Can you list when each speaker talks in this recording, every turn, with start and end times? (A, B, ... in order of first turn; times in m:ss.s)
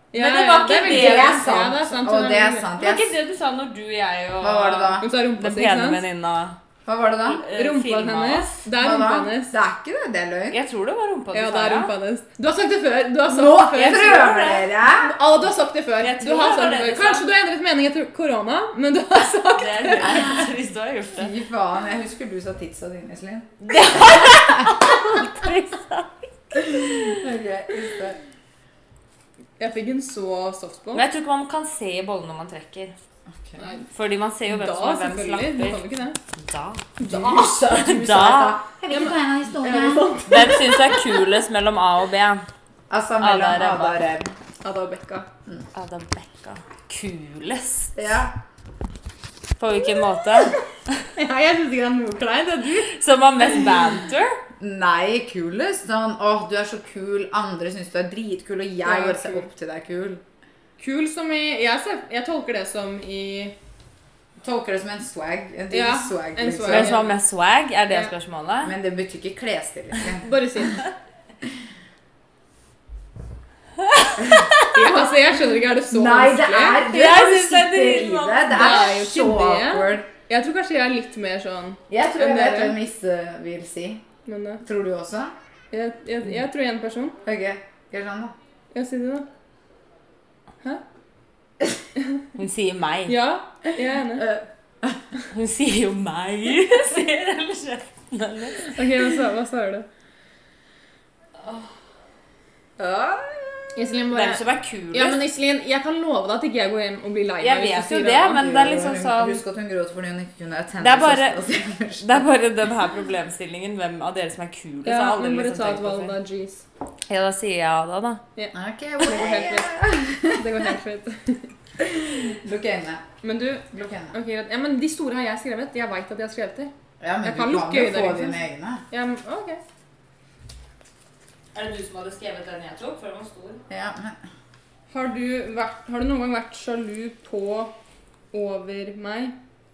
0:00.1-0:02.7 A
0:00.1-0:01.5 B
0:00.8-0:03.1 C
0:02.8-0:06.6 B
0:04.4-0:05.1 C
0:05.0-0:06.0 A
0:06.8-0:07.4 C
0:07.3-0:08.6 B
0:07.5-0:09.5 A
0:08.7-0:10.6 C
0:10.5-0:11.9 B
0:11.3-0:20.3 A
0:13.3-0:15.1 C
0:13.7-0:14.7 B
0:16.0-0:17.3 B
0:19.5-0:21.3 B
0:20.1-0:20.5 C
0:21.2-0:24.7 C
0:23.6-0:27.2 B
0:26.6-0:28.2 C
0:29.6-0:31.0 A
0:30.9-0:32.9 B
0:33.6-0:33.9 A
0:33.9-0:38.6 B
0:34.4-0:36.2 A
0:37.0-0:37.5 A
0:37.0-0:40.3 C
0:38.9-0:41.2 A
0:40.3-0:42.4 B
0:42.9-0:44.3 C
0:43.2-0:44.0 B
0:44.6-0:45.3 A
0:45.7-0:48.2 B
0:48.0-0:48.3 C
0:49.6-0:51.1 B
0:51.1-0:52.9 A
0:52.8-0:54.4 B
0:54.6-1:00.2 C
0:58.8-0:59.5 A
1:00.8-1:03.5 A
1:04.4-1:07.0 C
1:05.7-1:07.1 A
1:06.7-1:08.7 B
1:08.6-1:10.3 C
1:10.2-1:10.8 A
1:13.9-1:14.6 B
1:14.2-1:14.5 C
1:14.7-1:16.8 A
1:15.9-1:20.1 C
1:16.8-1:18.8 B
1:18.5-1:22.8 A
1:21.9-1:24.0 C
1:24.2-1:24.6 A
1:24.6-1:25.3 C
1:25.7-1:27.2 A
1:27.2-1:28.3 C
1:28.7-1:29.2 A
1:32.4-1:33.2 B
1:33.1-1:34.3 A
1:34.2-1:35.0 C
1:35.3-1:38.8 B
1:38.7-1:39.8 A
1:42.8-1:43.8 C
1:43.7-1:48.4 A
1:44.1-1:45.2 B
1:47.4-1:49.4 B
1:48.3-1:52.2 C
1:50.8-1:51.4 B
1:52.0-1:56.1 B
1:54.8-1:56.6 A
1:57.1-1:58.2 B
1:58.4-1:59.8 A
1:58.5-2:00.6 C
2:00.3-2:01.5 A
2:01.8-2:03.0 C
2:03.2-2:06.7 A
2:03.7-2:04.1 C
2:07.0-2:08.8 C
2:07.2-2:09.6 A
2:11.5-2:13.6 B
2:13.7-2:14.2 C
2:14.9-2:17.7 A
2:18.3-2:19.3 A